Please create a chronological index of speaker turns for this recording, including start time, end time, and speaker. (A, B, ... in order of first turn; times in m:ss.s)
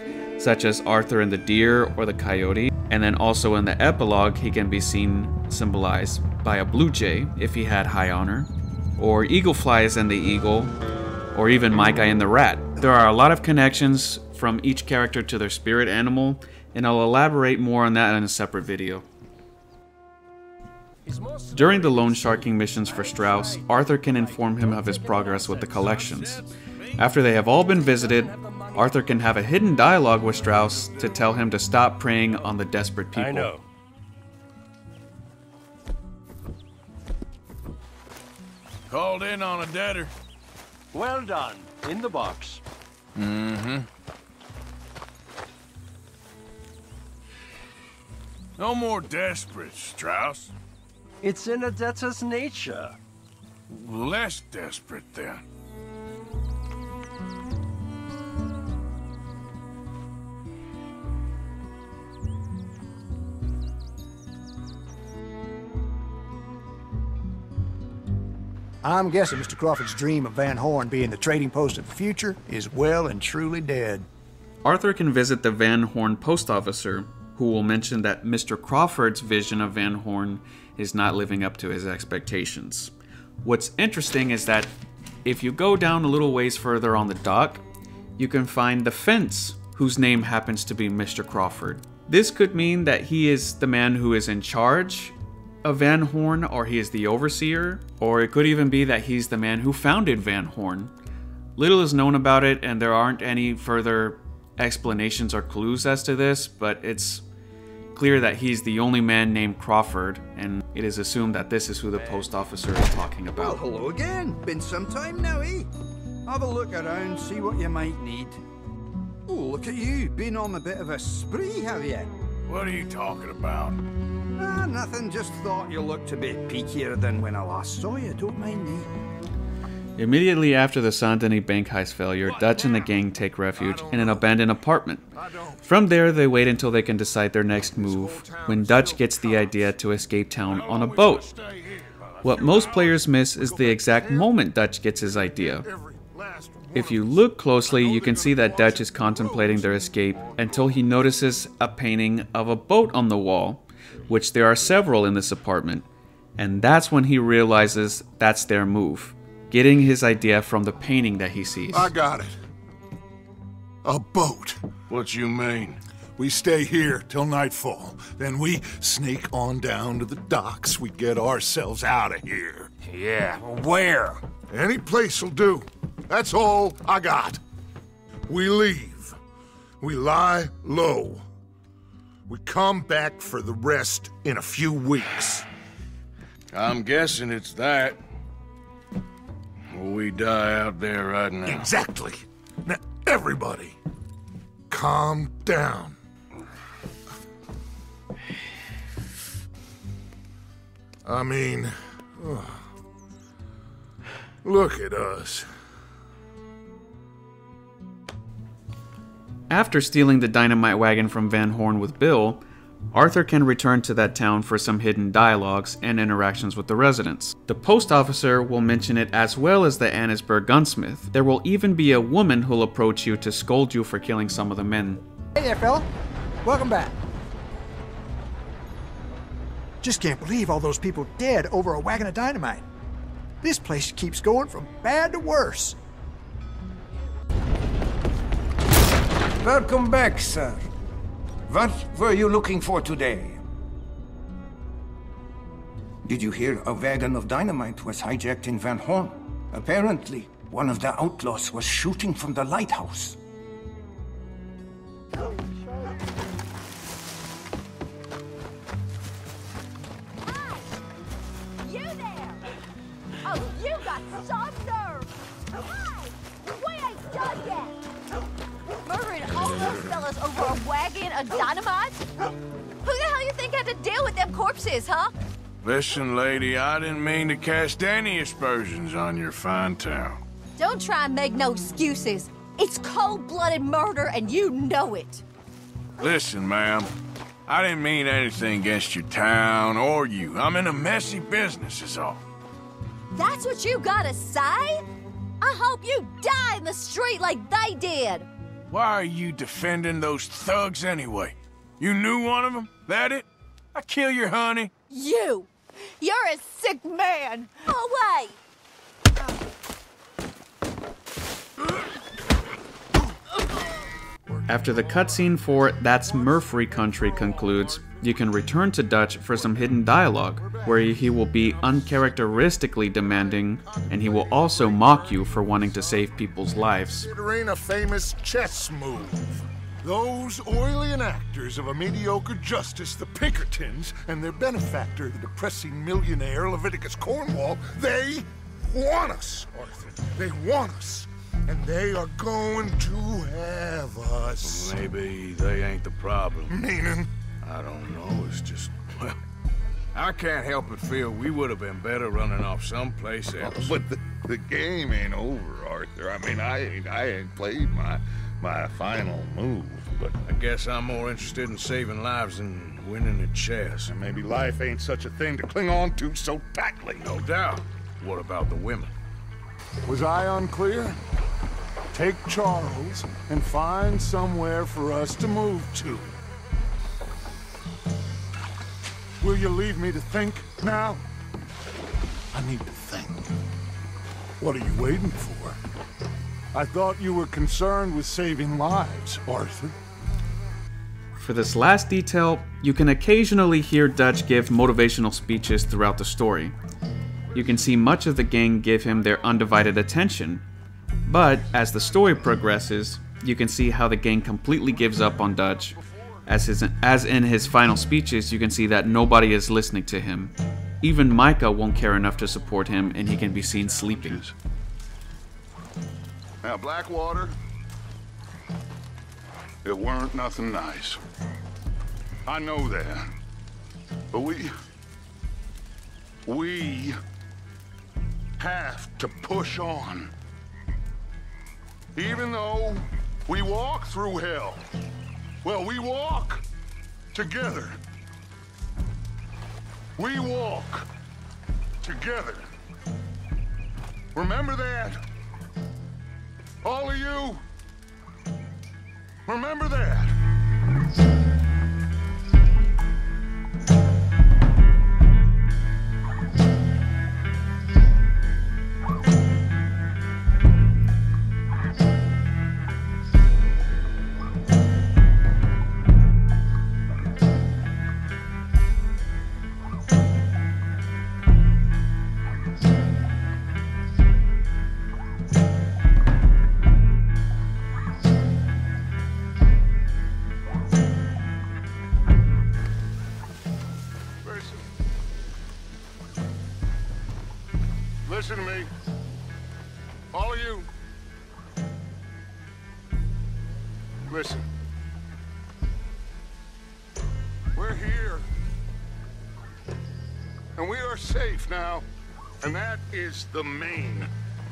0:00.4-0:10.7 A
0:11.3-0:19.0 A
0:21.0-0:21.5 B
0:21.5-0:33.5 A
0:26.1-0:26.4 B
0:33.1-0:33.6 B
0:38.9-0:40.1 C
0:40.9-0:42.6 B
0:43.2-0:43.8 C
0:48.6-0:50.5 C
0:51.2-0:53.0 B
0:53.7-0:55.4 C
1:08.8-1:14.0 D
1:14.6-1:24.7 A
1:25.2-1:27.6 A
1:28.2-1:40.9 A
1:41.6-1:47.2 A
1:47.9-1:53.7 A
1:53.8-1:55.7 E
1:56.3-1:58.4 E
1:59.3-2:02.1 E
2:02.5-2:03.8 C
2:04.4-2:08.8 E
2:10.0-2:15.0 A
2:12.2-2:12.9 F
2:13.6-2:14.4 F
2:15.1-2:15.6 F
2:15.6-2:21.2 A
2:17.6-2:19.6 F
2:21.0-2:24.3 F
2:22.2-2:25.6 A
2:25.0-2:30.7 F
2:26.7-2:35.8 A
2:36.4-2:41.9 A
2:41.7-2:42.4 F
2:43.8-2:44.6 F
2:44.9-2:45.8 C
2:46.2-2:52.7 F
2:52.9-2:54.2 C
2:54.3-2:57.4 F
2:58.3-2:59.2 F
2:59.8-3:01.2 F
3:02.3-3:05.4 F
3:06.5-3:08.0 C
3:09.7-3:11.7 C
3:11.4-3:13.8 F
3:14.7-3:16.0 F
3:21.0-3:22.6 F
3:24.4-3:25.5 F
3:29.5-3:45.0 A
3:45.4-3:45.8 D
3:46.4-3:46.9 D
3:49.8-3:52.6 D
3:53.4-3:55.8 D
3:59.4-4:00.6 G
4:01.5-4:03.4 G
4:06.0-4:13.2 G
4:20.2-4:20.8 H
4:21.6-4:22.5 H
4:23.2-4:27.8 H
4:28.8-4:32.0 H
4:32.8-4:35.1 H
4:35.6-4:40.2 C
4:40.6-4:45.2 H
4:46.0-4:46.9 C
4:47.5-4:52.2 C
4:53.1-4:54.8 H
4:55.4-4:58.3 H
4:58.7-5:04.7 C
5:04.9-5:08.4 H
5:14.3-5:18.1 F
5:14.5-5:27.1 A
5:19.3-5:19.7 F
5:20.4-5:22.3 F
5:23.0-5:26.1 F
5:26.7-5:44.7 F
5:44.4-5:46.6 C
5:46.5-5:47.1 F
5:47.4-5:49.2 C
5:49.9-5:53.8 C
5:53.4-6:00.2 F
6:00.2-6:03.9 C
6:03.8-6:07.1 F
6:07.0-6:08.9 C
6:09.8-6:11.0 F
6:11.9-6:16.1 F
6:19.2-6:21.0 F
6:22.3-6:23.3 F
6:24.4-6:25.6 F
6:26.5-6:29.8 F
6:31.2-6:36.5 A
6:37.3-6:40.4 A
6:41.0-6:54.3 A
6:53.7-6:54.3 F
6:56.4-6:57.4 F
6:59.6-7:01.0 F
7:02.2-7:03.1 F
7:04.1-7:04.5 F
7:06.2-7:07.0 F
7:08.4-7:10.1 F
7:11.9-7:14.6 F
7:15.4-7:16.4 F
7:17.1-7:17.8 F
7:20.0-7:20.9 F
7:21.8-7:22.4 F
7:24.1-7:25.0 F
7:26.6-7:27.4 F
7:29.3-7:30.1 F
8:04.2-8:04.6 F
8:08.0-8:08.7 F
8:10.1-8:10.7 F
8:14.1-8:14.5 F
8:17.5-8:18.2 F
8:20.6-8:21.8 F
8:22.4-8:24.1 F